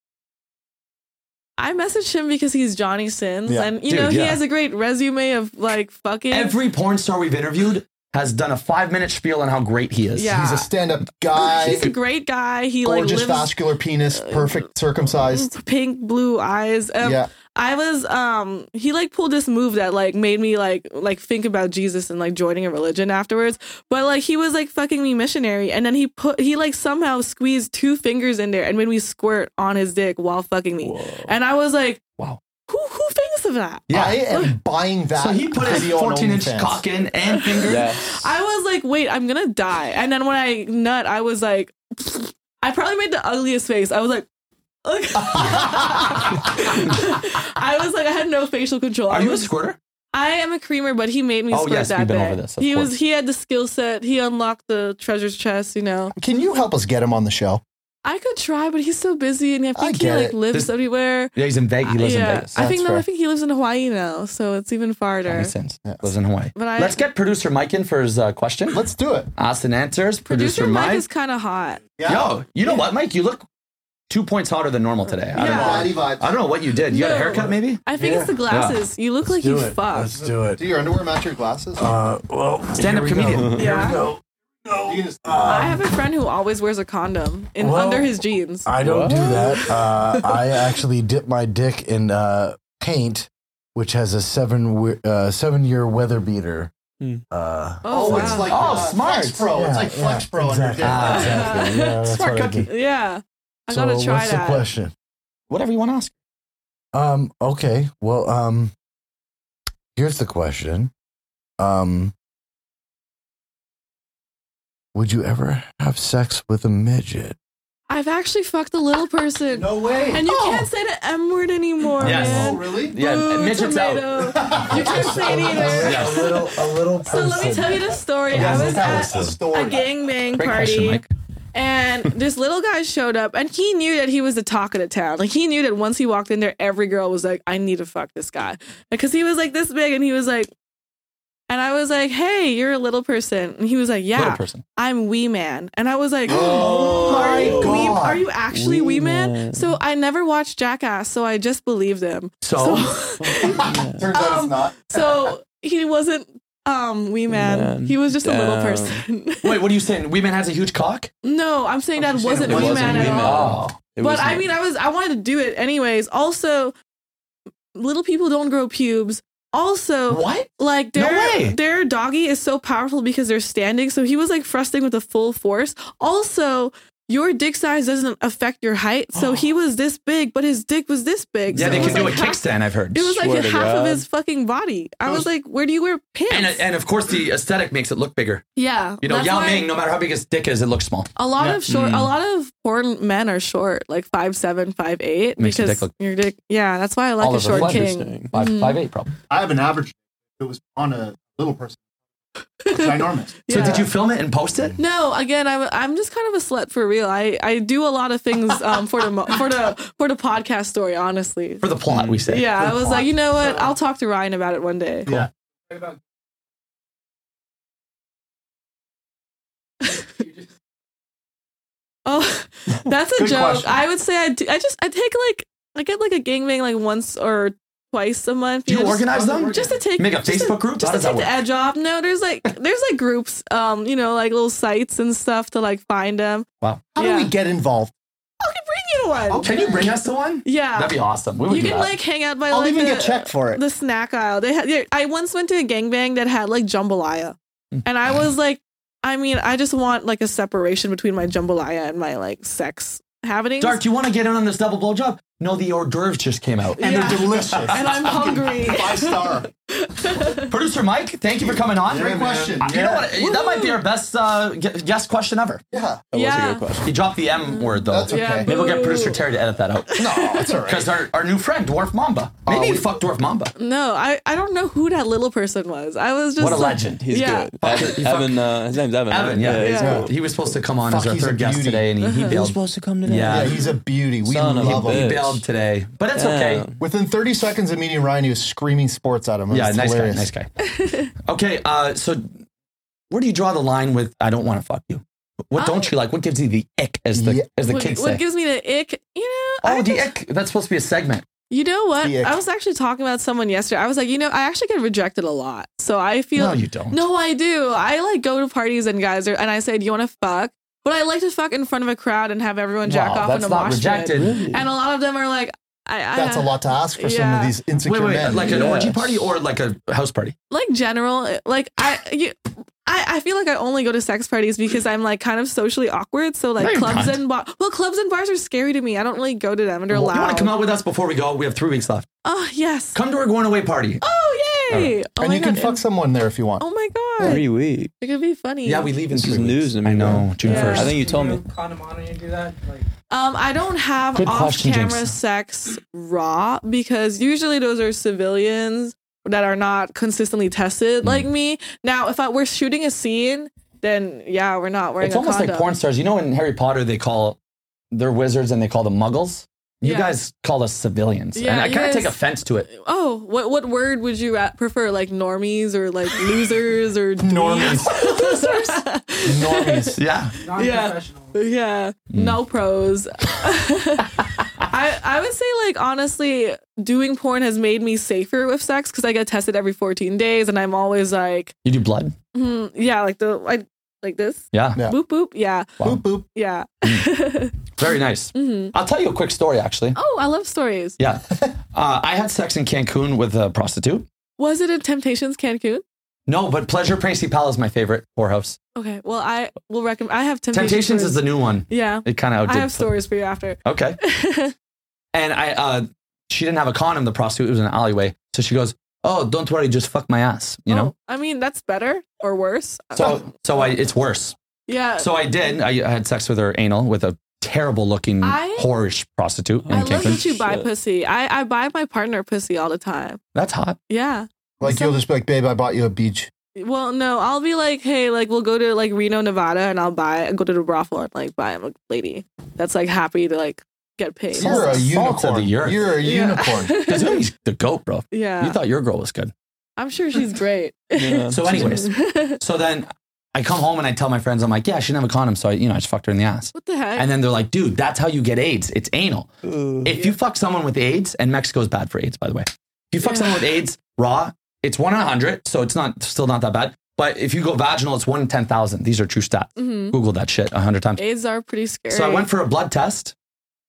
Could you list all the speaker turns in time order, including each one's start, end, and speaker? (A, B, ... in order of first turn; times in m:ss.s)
0:01.6-0:06.5 A
0:03.4-0:03.7 B
0:03.9-0:04.4 C
0:06.3-0:10.4 C
0:10.2-0:10.7 A
0:10.3-0:11.9 B
0:11.3-0:13.6 A
0:12.8-0:15.5 B
0:14.1-0:32.0 A
0:17.0-0:17.3 B
0:30.8-0:31.3 D
0:32.7-0:34.5 A
0:33.9-0:34.3 C
0:33.9-0:36.8 B
0:35.2-0:37.9 C
0:37.3-0:44.2 A
0:37.6-0:38.2 D
0:44.8-0:49.5 A
0:45.2-0:46.3 B
0:49.1-0:49.8 C
0:50.1-0:56.1 A
0:51.5-0:52.9 C
0:56.1-0:57.6 B
0:58.0-1:05.5 A
0:59.8-1:00.4 B
1:01.3-1:02.5 C
1:02.6-1:03.0 B
1:05.2-1:08.8 C
1:06.6-1:07.0 A
1:08.7-1:09.3 B
1:09.3-1:11.0 C
1:10.2-1:11.8 A
1:12.0-1:12.3 B
1:12.0-1:13.4 C
1:14.1-1:17.8 C
1:15.3-1:15.9 A
1:15.4-1:16.3 B
1:16.9-1:20.2 A
1:17.9-1:18.4 E
1:18.5-1:18.8 C
1:19.2-1:20.7 E
1:20.5-1:21.9 B
1:21.8-1:25.9 E
1:22.7-1:23.6 C
1:23.3-1:23.6 D
1:23.6-1:24.0 A
1:24.8-1:25.8 B
1:25.4-1:30.3 A
1:27.6-1:36.7 E
1:28.8-1:29.7 D
1:37.3-1:38.8 E
1:37.8-1:38.6 A
1:37.9-1:41.5 B
1:37.9-1:39.5 C
1:39.5-1:42.7 E
1:40.8-1:42.7 C
1:41.0-1:44.6 A
1:43.7-1:44.9 E
1:45.5-1:46.1 C
1:46.9-1:48.7 E
1:49.9-1:50.9 E
1:51.6-1:52.1 E
1:54.9-1:57.4 E
1:57.9-2:11.0 A
1:59.5-2:00.3 B
2:00.2-2:00.7 C
2:02.0-2:04.6 C
2:02.0-2:03.0 B
2:04.3-2:09.8 B
2:04.8-2:07.9 E
2:05.7-2:06.4 C
2:08.3-2:09.4 C
2:10.4-2:11.1 C
2:11.5-2:20.5 A
2:21.5-2:39.6 A
2:24.1-2:24.6 C
2:26.3-2:28.2 B
2:26.3-2:28.1 C
2:26.4-2:27.9 D
2:28.5-2:29.7 D
2:32.4-2:33.0 C
2:33.3-2:35.3 B
2:33.4-2:34.1 D
2:37.3-2:39.0 D
2:39.4-2:41.1 C
2:41.2-2:43.4 A
2:42.0-2:43.5 B
2:42.4-2:44.5 D
2:42.8-2:43.8 C
2:44.0-2:46.7 A
2:47.7-3:06.6 A
2:50.1-2:51.6 C
3:01.5-3:03.2 C
3:01.5-3:02.2 D
3:03.2-3:04.0 D
3:06.3-3:08.4 C
3:08.6-3:09.7 A
3:09.0-3:11.1 C
3:11.2-3:18.8 A
3:11.7-3:12.1 D
3:15.4-3:15.9 C
3:17.2-3:19.1 C
3:17.5-3:18.3 D
3:19.3-3:21.8 B
3:22.6-3:23.9 A
3:22.7-3:23.8 B
3:23.5-3:24.8 C
3:24.8-3:31.6 A
3:31.6-3:33.1 C
3:31.9-3:32.2 D
3:32.3-3:35.1 A
3:35.7-3:36.0 F
3:40.0-3:40.5 F
3:42.0-3:56.4 A
3:43.2-3:43.8 B
3:48.6-3:51.4 C
3:49.3-3:49.8 F
3:56.9-3:57.9 B
3:57.0-3:57.3 A
3:58.4-3:59.9 A
3:59.3-3:59.9 B
3:59.4-4:02.0 C
4:00.4-4:01.0 A
4:01.5-4:13.8 A
4:02.5-4:03.6 B
4:13.6-4:18.0 C
4:16.8-4:20.5 A
4:16.8-4:19.5 B
4:20.3-4:25.6 C
4:21.4-4:23.1 B
4:23.2-4:23.8 A
4:25.7-4:26.0 B
4:26.1-4:26.9 D
4:26.1-4:26.7 A
4:26.8-4:33.5 C
4:27.5-4:29.2 A
4:27.8-4:28.5 B
4:30.0-4:30.5 A
4:30.0-4:30.9 B
4:32.4-4:33.0 B
4:33.6-4:37.7 A
4:36.4-4:37.0 C
4:36.6-4:40.1 D
4:37.6-4:38.5 C
4:39.1-4:43.5 C
4:39.6-4:40.1 A
4:39.8-4:40.1 B
4:40.9-4:41.9 B
4:42.0-4:42.4 A
4:42.2-4:45.4 D
4:43.2-4:45.3 B
4:44.6-4:46.6 C
4:46.1-4:46.8 D
4:46.8-4:50.3 B
4:49.5-4:50.5 C
4:50.6-4:51.1 A
4:51.2-4:52.3 C
4:53.1-4:58.2 C
4:55.6-4:55.9 A
4:57.1-4:57.4 B
4:57.6-5:00.1 A
4:59.6-5:01.2 C
5:01.5-5:17.5 A
5:02.0-5:02.4 B
5:06.4-5:07.1 C
5:12.8-5:14.4 C
5:14.2-5:14.6 D
5:16.1-5:18.7 B
5:17.8-5:20.3 C
5:18.3-5:19.2 D
5:20.5-5:30.5 A
5:26.6-5:27.2 C
5:29.9-5:32.1 C
5:32.2-5:33.0 A
5:32.9-5:34.0 C
5:34.0-5:35.8 A
5:35.2-5:36.6 B
5:36.6-5:37.4 A
5:37.2-5:37.9 D
5:38.0-5:38.9 A
5:38.6-5:41.0 C
5:39.1-5:41.4 D
5:40.4-5:40.9 A
5:40.5-5:42.8 F
5:43.1-5:55.7 A
5:44.2-5:45.1 C
5:55.0-5:57.4 C
5:57.9-6:02.7 C
5:59.8-6:00.1 A
6:01.3-6:02.2 A
6:02.7-6:21.5 A
6:07.2-6:07.9 B
6:07.6-6:08.8 C
6:09.2-6:10.0 B
6:10.0-6:10.4 C
6:10.4-6:11.4 F
6:12.1-6:12.4 C
6:21.6-6:22.2 C
6:22.3-6:25.8 A
6:24.5-6:24.8 C
6:25.8-6:26.2 B
6:26.3-6:27.6 A
6:26.8-6:27.1 C
6:27.7-6:30.0 C
6:28.3-6:28.7 A
6:29.9-6:31.0 A
6:31.0-6:34.0 C
6:34.4-6:35.8 A
6:36.3-6:38.6 C
6:38.7-6:44.5 A
6:40.5-6:42.9 C
6:43.6-6:44.0 C
6:45.1-6:50.9 C
6:50.7-6:53.2 A
6:52.9-6:54.3 C
6:54.7-6:55.3 A
6:55.0-7:00.3 C
6:58.2-6:58.7 A
6:59.6-7:00.7 D
6:59.7-7:03.2 A
7:03.3-7:03.8 C
7:03.9-7:05.0 A
7:04.6-7:06.3 B
7:06.6-7:14.9 A
7:14.3-7:16.8 B
7:14.4-7:15.9 C
7:16.0-7:17.2 A
7:16.8-7:19.3 C
7:18.1-7:18.6 A
7:19.8-7:22.4 A
7:21.0-7:21.9 D
7:21.3-7:41.0 C
7:26.5-7:27.1 A
7:29.4-7:29.9 D
7:33.0-7:33.4 A
7:39.6-7:40.0 A
7:41.0-7:42.3 A
7:41.9-7:43.1 C